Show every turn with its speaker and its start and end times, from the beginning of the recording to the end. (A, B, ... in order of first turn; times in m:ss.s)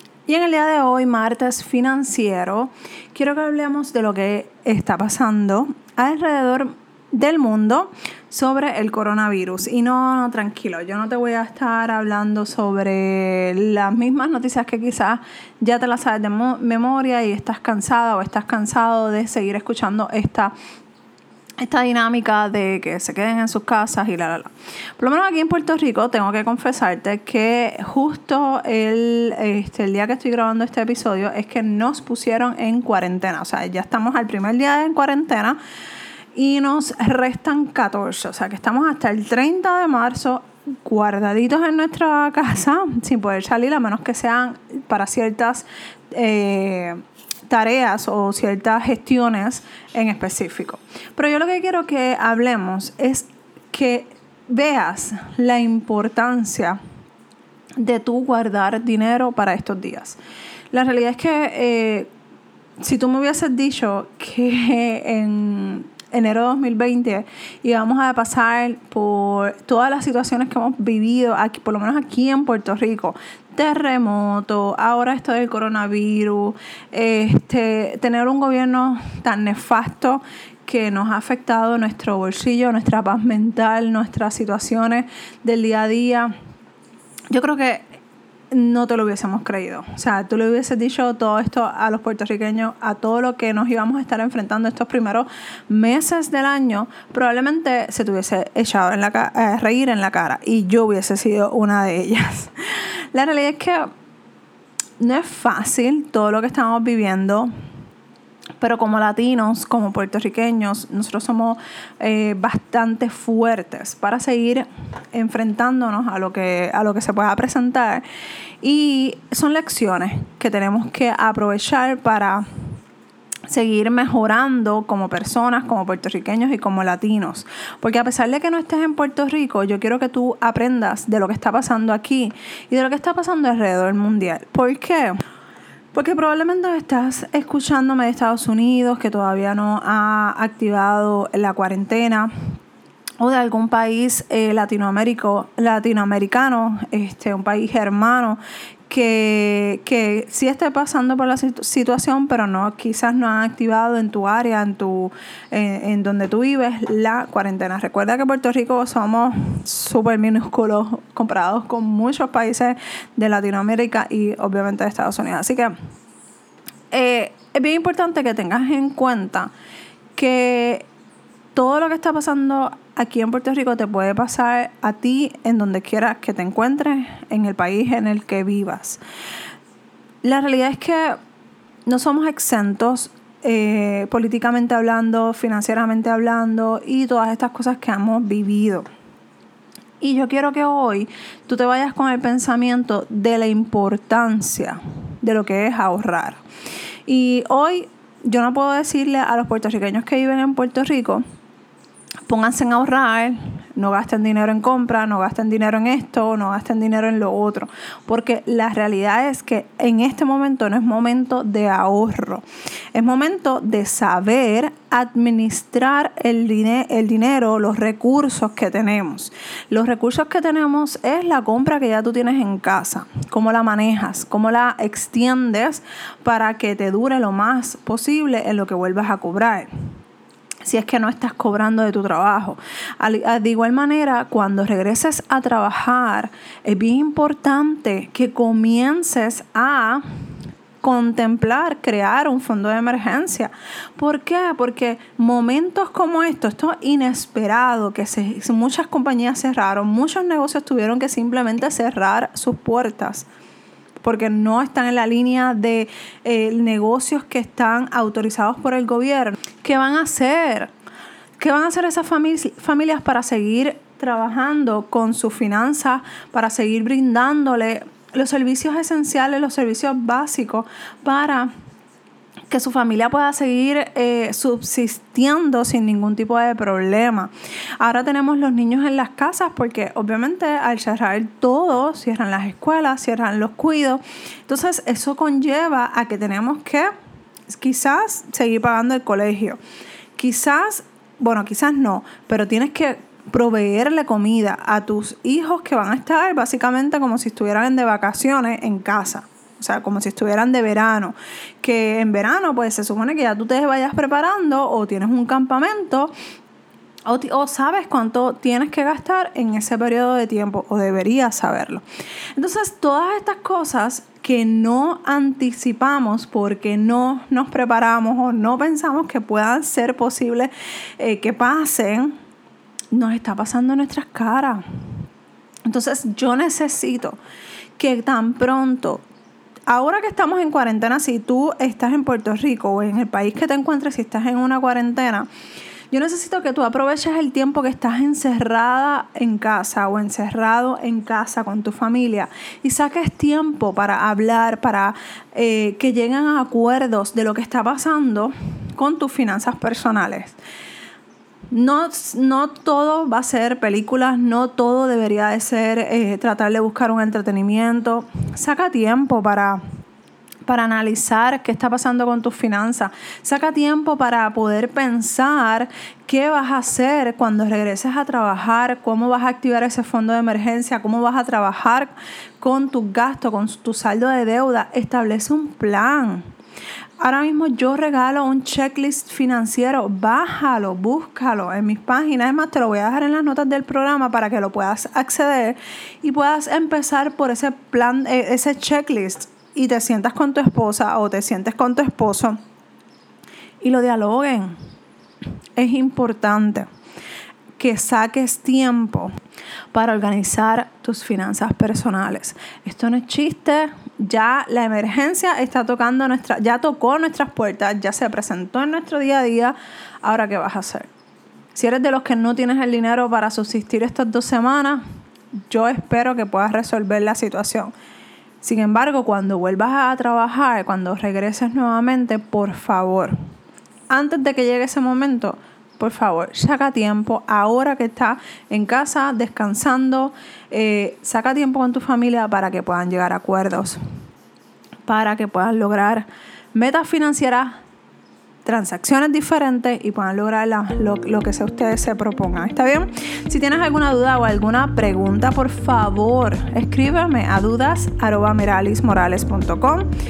0:00.3-0:20.5 A
0:21.6-0:35.6 A
0:36.4-0:56.8 A
0:57.8-1:00.2 A
1:00.7-1:02.1 A
1:02.8-1:26.3 A
1:27.3-1:27.9 A
1:28.5-1:43.9 A
1:45.0-1:47.5 A
1:48.6-1:58.0 A
1:58.6-2:02.4 A
2:03.5-2:15.2 A
2:15.9-2:22.3 A
2:23.2-2:45.7 A
2:46.9-2:49.5 A
2:50.2-2:50.9 A
2:51.6-2:59.0 A
3:00.2-3:01.2 A
3:01.9-3:08.9 A
3:10.0-3:16.4 A
3:17.1-3:21.2 A
3:22.3-3:49.7 A
3:50.6-4:00.0 A
4:00.8-4:13.3 A
4:14.0-4:20.7 A
4:21.4-4:31.5 A
4:32.5-4:46.9 A
4:47.5-4:49.6 A
4:50.2-5:06.1 A
5:07.1-5:11.8 A
5:12.4-5:22.1 A
5:22.9-5:24.6 A
5:25.7-5:27.2 A
5:27.8-5:29.0 A
5:29.7-5:35.3 A
5:35.9-5:50.4 A
5:51.5-5:59.6 A
6:00.5-6:16.3 A
6:17.0-6:32.4 A
6:33.6-6:34.6 A
6:35.6-6:36.7 A
6:37.6-6:39.1 A
6:39.7-6:50.9 A
6:51.5-6:54.8 A
6:55.5-6:57.7 A
6:58.4-7:03.2 A
7:03.9-7:13.8 A
7:14.9-7:17.6 A
7:18.4-7:29.9 A